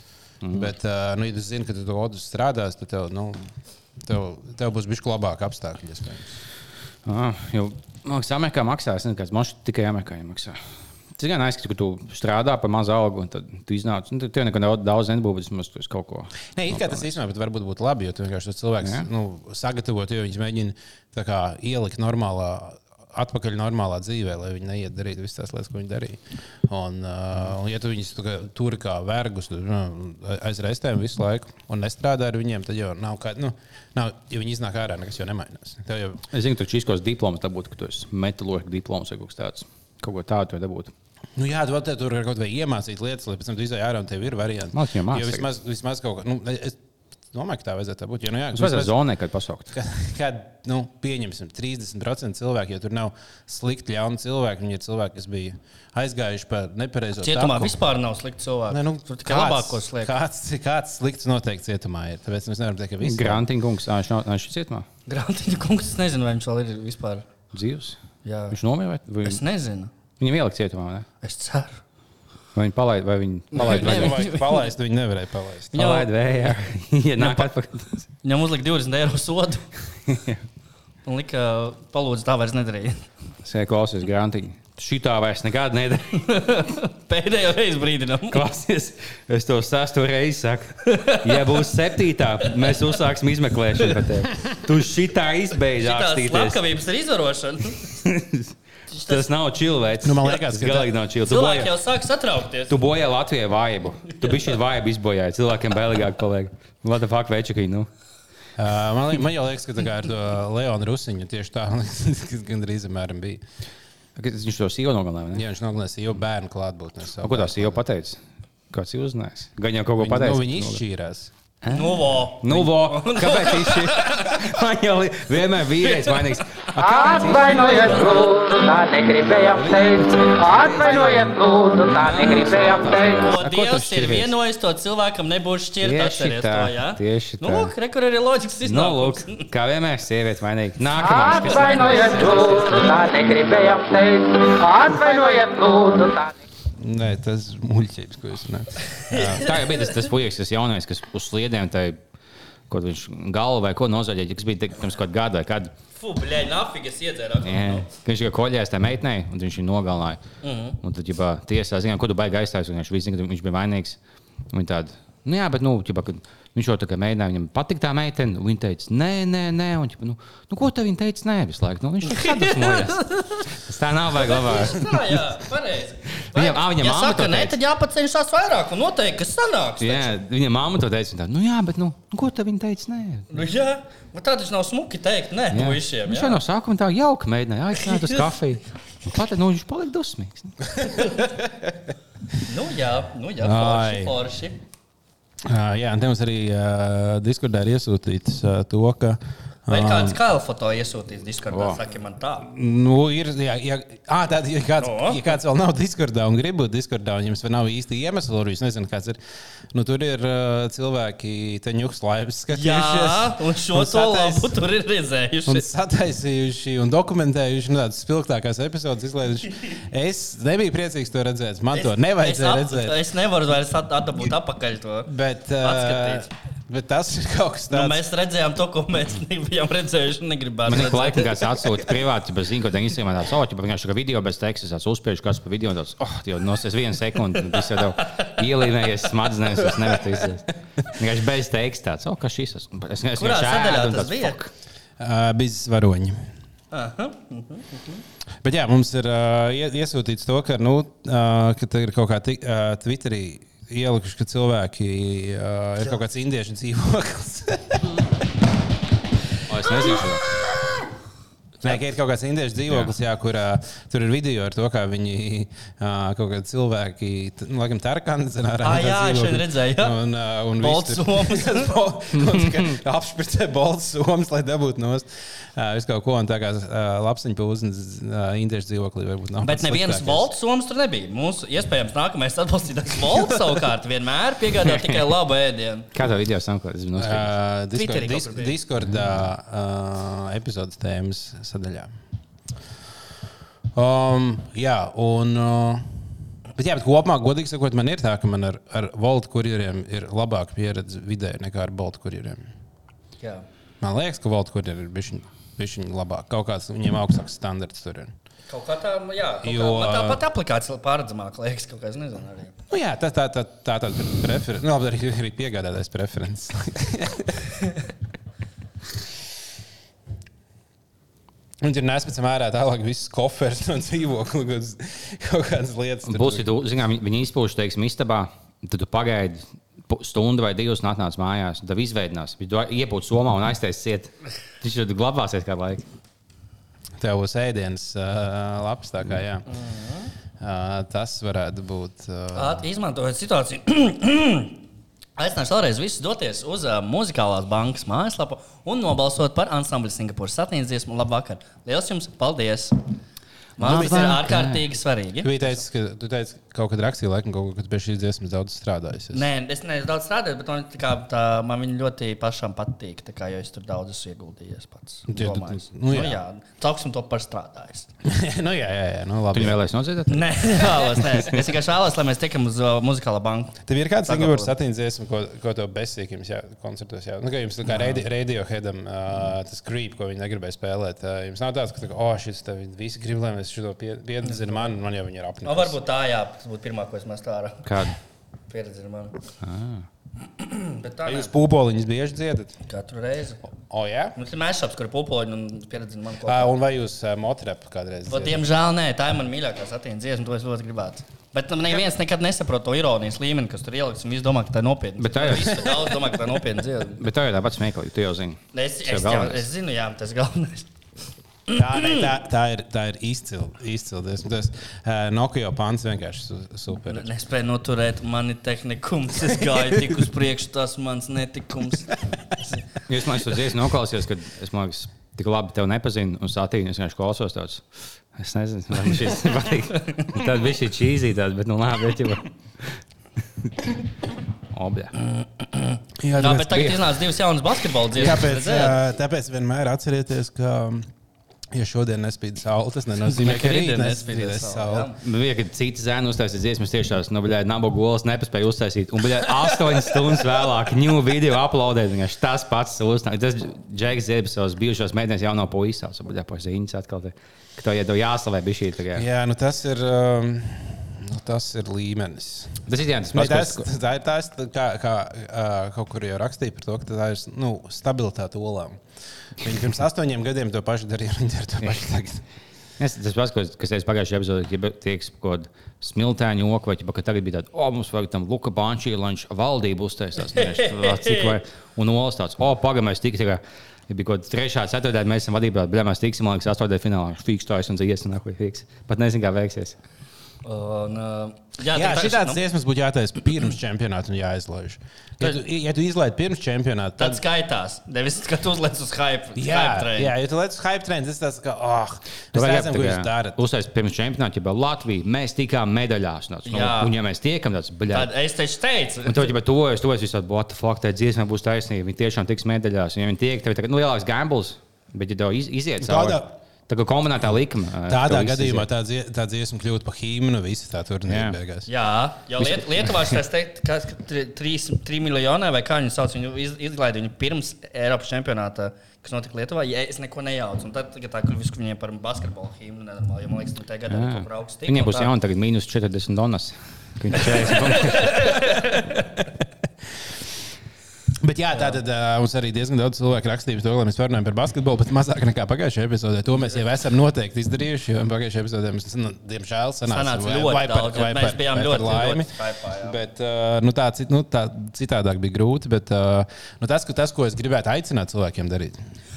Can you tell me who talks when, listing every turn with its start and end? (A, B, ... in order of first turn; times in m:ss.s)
0:00.4-0:00.7 A
0:00.5-0:06.4 B
0:07.0-0:10.6 A
0:11.2-0:17.1 A
0:16.5-0:36.2 B
0:36.3-0:40.9 A
0:41.4-0:46.8 B
0:44.7-0:45.4 A
0:47.3-0:48.9 B
0:48.5-0:49.7 A
0:49.7-0:57.9 B
0:57.2-1:00.1 C
0:58.7-1:03.4 B
1:03.0-1:04.8 A
1:05.1-1:07.2 C
1:07.5-1:08.0 A
1:08.2-1:08.6 C
1:08.5-1:09.4 A
1:09.2-1:09.9 C
1:10.2-1:11.0 A
1:11.2-1:11.8 C
1:12.5-1:14.2 A
1:13.5-1:15.8 B
1:13.5-1:14.7 C
1:15.7-1:16.1 C
1:15.7-1:18.0 A
1:17.2-1:17.5 C
1:18.2-1:19.7 C
1:20.1-1:20.4 A
1:21.0-1:23.0 C
1:23.4-1:26.3 A
1:26.1-1:28.4 C
1:28.3-1:36.6 A
1:30.8-1:31.6 C
1:32.4-1:32.8 C
1:35.7-1:37.9 C
1:37.9-1:38.5 A
1:38.9-1:39.3 C
1:39.1-1:41.7 A
1:40.0-1:40.9 B
1:41.2-1:42.8 C
1:42.7-1:47.9 A
1:44.2-1:44.5 C
1:48.6-1:53.4 B
1:54.2-1:55.4 A
1:55.3-1:57.8 B
1:57.2-1:58.2 A
1:58.7-2:00.8 A
2:00.0-2:01.3 B
2:01.6-2:06.7 A
2:01.7-2:04.4 C
2:05.8-2:06.3 C
2:06.7-2:13.3 D
2:06.8-2:08.1 B
2:07.4-2:08.2 C
2:09.5-2:11.3 B
2:12.0-2:14.3 A
2:12.2-2:19.4 C
2:15.8-2:17.7 A
2:18.6-2:22.7 A
2:21.0-2:26.3 D
2:21.3-2:22.9 C
2:26.8-2:29.5 B
2:29.0-2:29.8 C
2:29.1-2:32.0 A
2:32.7-2:35.7 A
2:35.9-2:37.9 C
2:37.4-2:40.2 A
2:40.4-2:40.8 C
2:40.8-2:44.0 A
2:44.5-2:55.2 A
2:52.0-2:53.4 C
2:54.1-3:00.1 C
2:56.2-2:57.6 A
2:59.8-3:03.4 A
3:03.3-3:06.4 C
3:05.5-3:10.7 A
3:07.8-3:08.2 C
3:10.8-3:11.7 B
3:12.4-3:14.6 C
3:13.4-3:14.2 B
3:15.4-3:20.2 B
3:19.7-3:22.5 C
3:21.5-3:21.8 A
3:22.4-3:29.2 B
3:24.8-3:25.2 C
3:29.7-3:34.5 B
3:32.5-3:35.6 C
3:35.4-3:43.1 B
3:41.7-3:46.3 C
3:45.1-3:48.0 B
3:47.7-3:51.5 C
3:50.6-4:04.5 A
3:57.3-3:58.3 C
4:03.2-4:04.4 C
4:05.0-4:06.2 B
4:06.7-4:08.0 C
4:08.4-4:18.1 B
4:19.5-4:20.2 A
4:21.6-4:40.3 B
4:28.6-4:30.0 C
4:30.6-4:31.7 C
4:32.2-4:32.7 A
4:39.4-4:45.9 C
4:44.7-4:45.0 A
4:45.9-4:47.3 A
4:47.0-4:52.0 B
4:47.7-4:48.6 C
4:53.7-4:56.0 B
4:56.5-5:02.5 B
5:03.2-5:03.4 C
5:03.8-5:08.1 B
5:08.5-5:12.5 C
5:09.4-5:10.2 B
5:12.7-5:17.5 B
5:21.6-5:26.5 B
5:26.0-5:35.8 A
5:37.0-5:39.5 B
5:39.5-5:40.1 C
5:40.4-5:42.6 B
5:42.3-5:44.6 C
5:45.2-5:52.8 C
5:53.6-5:55.6 C
5:53.6-5:54.6 A
5:53.6-5:54.2 B
5:55.2-5:59.3 B
5:59.1-6:07.9 C
6:05.1-6:06.2 B
6:08.0-6:09.6 B
6:09.3-6:11.4 A
6:10.1-6:14.5 C
6:13.6-6:25.8 B
6:24.2-6:24.7 C
6:25.4-6:27.7 C
6:27.6-6:27.9 A
6:28.5-6:29.2 C
6:29.4-6:29.8 A
6:30.4-6:31.3 C
6:31.0-6:32.5 B
6:32.7-6:33.4 C
6:33.7-6:34.2 B
6:34.1-6:36.5 C
6:36.2-6:38.4 B
6:38.1-6:47.0 C
6:45.0-6:45.9 A
6:47.0-6:49.5 A
6:48.5-6:50.7 C
6:51.5-6:52.0 C
6:51.5-6:57.1 B
6:56.9-7:02.6 C
7:02.9-7:12.8 A
7:13.5-7:13.8 A
7:14.5-7:14.9 A
7:15.1-7:18.8 C
7:16.0-7:16.8 B
7:16.5-7:16.8 A
7:17.9-7:20.9 B
7:21.5-7:24.9 B
7:23.0-7:25.0 C
7:25.0-7:39.0 A
7:38.9-7:48.8 B
7:42.7-7:43.6 A
7:49.4-7:52.2 B
7:52.8-8:09.8 A
8:00.3-8:01.4 C
8:10.4-8:12.4 C
8:11.7-8:17.2 B
8:17.0-8:20.1 C
8:19.4-8:23.4 B
8:22.3-8:28.1 A
8:26.5-8:26.9 C
8:27.9-8:29.3 C
8:29.1-8:38.7 A
8:35.8-8:36.3 B
8:37.9-8:41.7 B
8:41.1-8:41.3 A
8:41.7-8:55.1 C
8:53.9-8:58.4 A
8:57.2-8:59.0 C
9:01.1-9:18.8 B
9:09.8-9:13.0 C